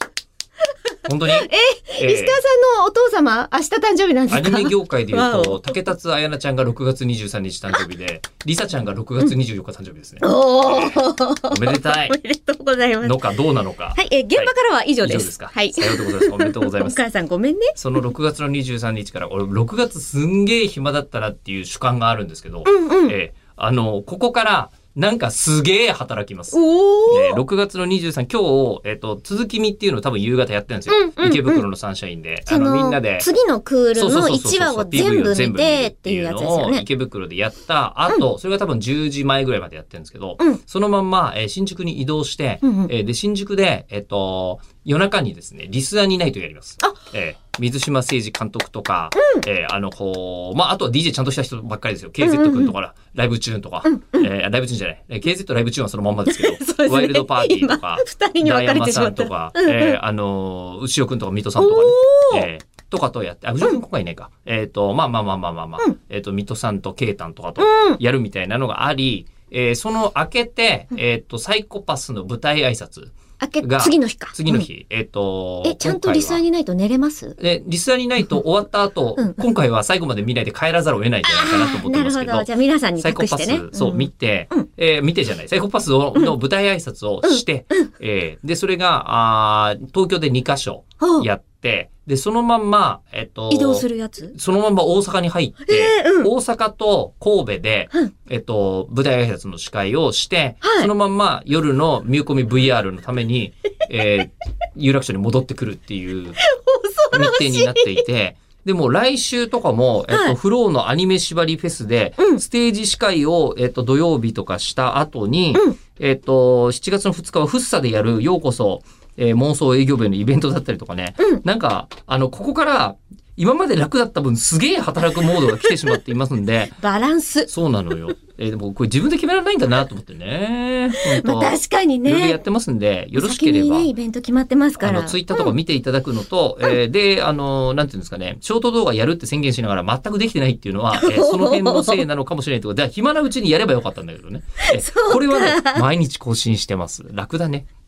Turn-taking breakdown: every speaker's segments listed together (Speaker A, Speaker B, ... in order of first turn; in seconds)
Speaker A: 1.1-2.4, 4.3-12.2, 13.0-17.0, 17.8-26.6, 27.1-33.3, 34.0-76.4, 77.4-106.4, 107.1-126.8, 127.5-133.9, 134.8-147.7
Speaker B: 1.3-5.8, 10.2-13.3, 13.9-17.7, 22.6-23.1, 26.5-27.4, 30.9-31.6, 32.5-36.8, 42.6-42.9, 49.1-49.4, 52.2-52.7, 53.8-54.3, 56.3-60.0, 61.6-62.5, 67.6-68.0, 73.4-74.7, 75.6-77.4, 79.2-79.4, 81.2-84.7, 87.2-87.9, 91.0-91.2, 93.5-94.3, 95.6-96.3, 100.6-100.9, 106.4-108.0, 110.1-110.3, 115.5-115.8, 126.8-127.5, 131.0-132.4, 133.2-135.5, 140.9-142.0, 144.7-145.8